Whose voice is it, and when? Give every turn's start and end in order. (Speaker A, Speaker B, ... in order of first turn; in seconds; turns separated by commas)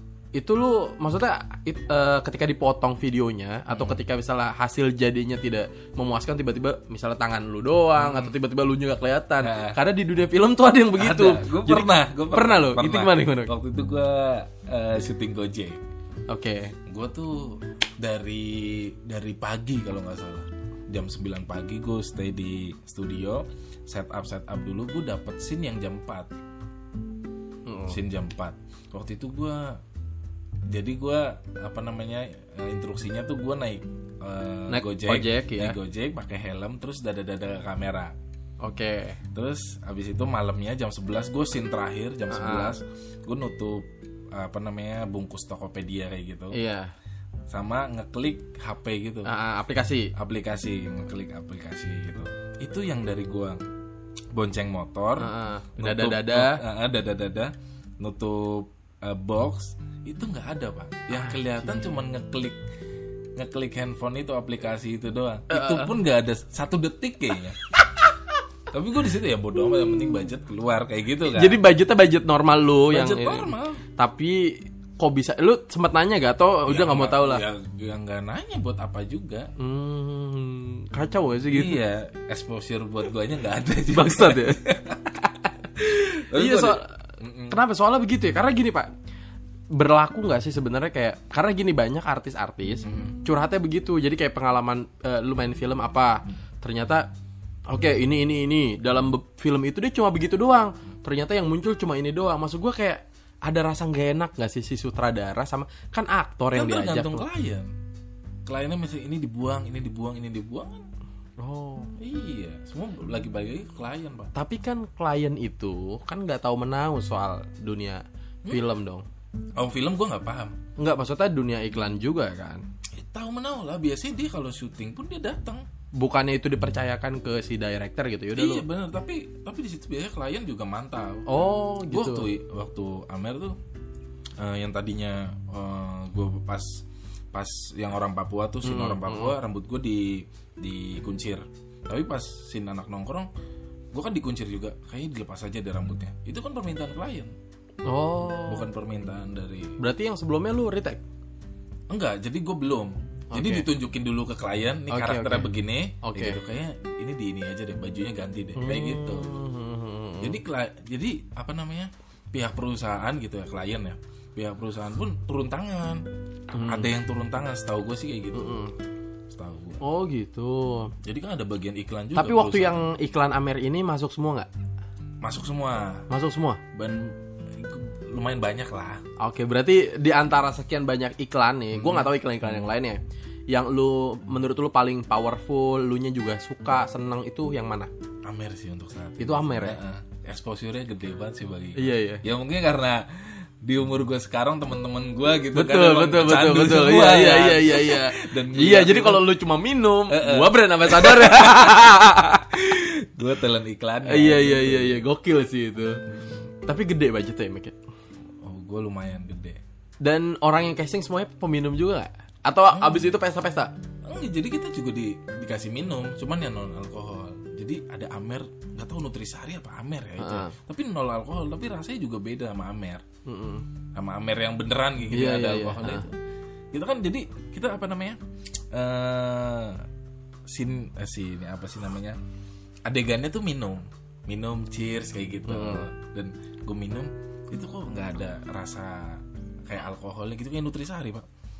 Speaker A: 0.3-13.5, Speaker B: 3.7-4.0, Speaker B: 8.0-8.3, Speaker B: 9.4-9.8, Speaker B: 10.9-15.8, Speaker A: 16.3-16.7, Speaker B: 16.9-26.3, Speaker A: 27.6-28.0, Speaker B: 27.9-29.8, Speaker B: 30.7-38.1, Speaker A: 34.7-35.8, Speaker A: 38.6-39.2, Speaker B: 39.3-46.6, Speaker A: 42.3-42.8, Speaker A: 46.5-46.9, Speaker B: 47.5-49.3, Speaker A: 49.2-50.1, Speaker B: 50.1-53.6, Speaker B: 54.3-62.6, Speaker A: 55.2-56.6, Speaker A: 61.1-61.8, Speaker B: 63.4-67.7, Speaker A: 65.5-66.0, Speaker B: 68.7-71.6, Speaker A: 71.2-77.4, Speaker B: 72.9-73.8, Speaker B: 76.7-79.5, Speaker A: 79.6-81.8, Speaker B: 81.5-87.6, Speaker A: 83.9-84.6, Speaker A: 86.3-86.9, Speaker A: 87.5-88.9, Speaker A: 89.7-97.1, Speaker B: 92.8-93.2, Speaker A: 97.7-107.3, Speaker B: 106.5-107.7, Speaker B: 108.5-110.9, Speaker A: 111.4-111.9, Speaker B: 112.0-114.3, Speaker A: 114.3-119.0, Speaker B: 119.5-120.6, Speaker A: 120.8-122.6, Speaker B: 122.9-125.7, Speaker A: 125.9-128.6, Speaker B: 128.3-133.5, Speaker A: 131.2-132.3, Speaker B: 134.4-143.3, Speaker A: 138.6-139.3, Speaker B: 143.9-147.3, Speaker A: 147.8-148.7, Speaker B: 148.5-149.8, Speaker A: 149.8-151.0, Speaker B: 151.9-159.4, Speaker A: 153.3-153.7, Speaker A: 154.9-155.5, Speaker A: 156.0-156.4, Speaker A: 158.6-160.4, Speaker B: 160.2-166.0, Speaker A: 166.5-166.9, Speaker B: 166.6-168.6, Speaker A: 168.3-168.7, Speaker B: 169.3-169.8, Speaker A: 169.8-170.9, Speaker B: 171.0-172.8, Speaker A: 172.2-174.5, Speaker B: 175.2-176.1, Speaker A: 176.1-176.6, Speaker B: 176.7-179.0, Speaker A: 179.2-187.9, Speaker B: 181.7-182.7, Speaker B: 188.2-199.3, Speaker A: 189.2-189.8, Speaker A: 191.8-192.2, Speaker A: 195.5-202.6, Speaker B: 200.1-201.9, Speaker B: 202.5-205.0, Speaker A: 204.0-206.0, Speaker A: 206.7-207.8, Speaker B: 208.4-209.6, Speaker A: 210.0-213.7, Speaker B: 212.7-213.2, Speaker B: 214.1-223.0, Speaker A: 220.2-220.5, Speaker A: 223.2-223.7, Speaker B: 223.9-226.1, Speaker A: 225.1-226.1, Speaker B: 226.7-228.2, Speaker B: 228.7-229.8, Speaker B: 230.5-232.2, Speaker B: 232.8-241.2, Speaker A: 235.5-235.9